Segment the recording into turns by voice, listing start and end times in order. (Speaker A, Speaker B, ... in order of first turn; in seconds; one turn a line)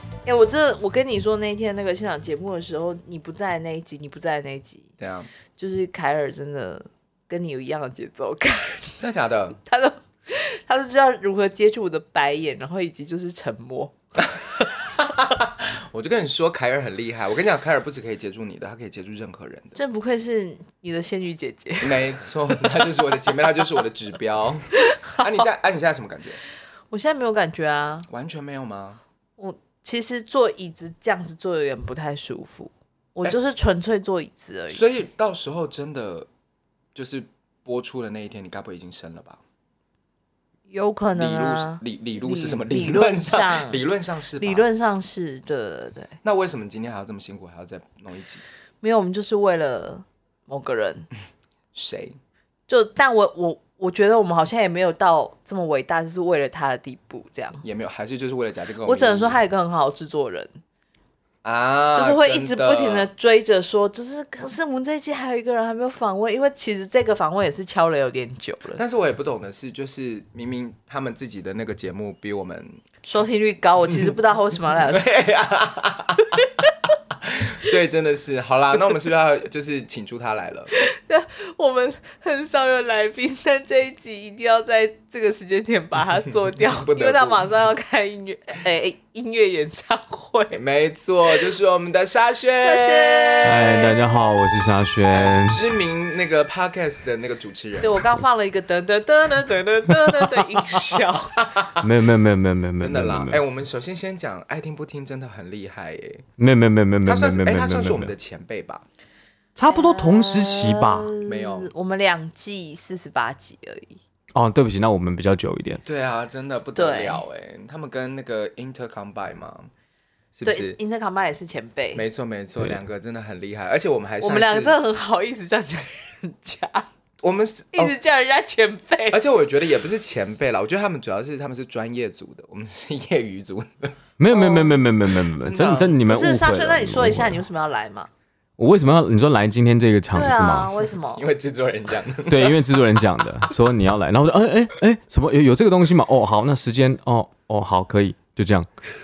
Speaker A: 0.2-4.9
Speaker B: 5.0-5.3
Speaker A: 5.6-9.0
Speaker B: 9.0-9.6
Speaker A: 9.7-13.9
Speaker B: 15.0-19.8
Speaker A: 19.8-22.0
Speaker B: 21.8-26.4
Speaker A: 24.8-25.5
Speaker A: 26.9-28.1
Speaker B: 28.1-29.0
Speaker A: 29.4-34.8
Speaker B: 34.7-36.3
Speaker B: 36.9-39.4
Speaker A: 40.7-43.8
Speaker B: 41.1-44.6
Speaker A: 44.4-46.1
Speaker B: 46.2-48.4
Speaker A: 48.8-51.1
Speaker B: 51.7-52.2
Speaker A: 52.7-57.6
Speaker B: 57.6-59.4
Speaker A: 58.8-60.5
Speaker B: 61.4-63.1
Speaker A: 61.9-68.8
Speaker B: 68.8-72.8
Speaker A: 73.0-75.1
Speaker B: 74.8-76.4
Speaker B: 77.1-80.7
Speaker A: 80.7-90.6
Speaker B: 86.5-87.5
Speaker B: 90.5-93.7
Speaker A: 92.6-94.2
Speaker C: 93.4-95.6
Speaker B: 95.1-98.0
Speaker A: 97.8-101.5
Speaker C: 100.1-100.9
Speaker B: 101.4-101.8
Speaker C: 101.8-103.4
Speaker B: 102.8-106.2
Speaker C: 106.4-108.1
Speaker B: 107.0-108.8
Speaker C: 109.5-111.1
Speaker A: 109.7-114.0
Speaker B: 111.2-111.7
Speaker C: 114.3-115.8
Speaker B: 115.8-119.7
Speaker A: 116.8-117.2
Speaker B: 120.3-120.8
Speaker A: 120.4-122.0
Speaker B: 121.9-124.8
Speaker A: 124.2-126.9
Speaker B: 127.2-127.9
Speaker A: 127.7-129.2
Speaker B: 129.1-133.9
Speaker C: 134.2-137.4
Speaker A: 134.3-134.8
Speaker B: 135.4-136.0
Speaker A: 136.1-138.1
Speaker C: 138.6-140.7
Speaker A: 140.1-141.2
Speaker B: 141.1-142.6
Speaker C: 142.3-148.7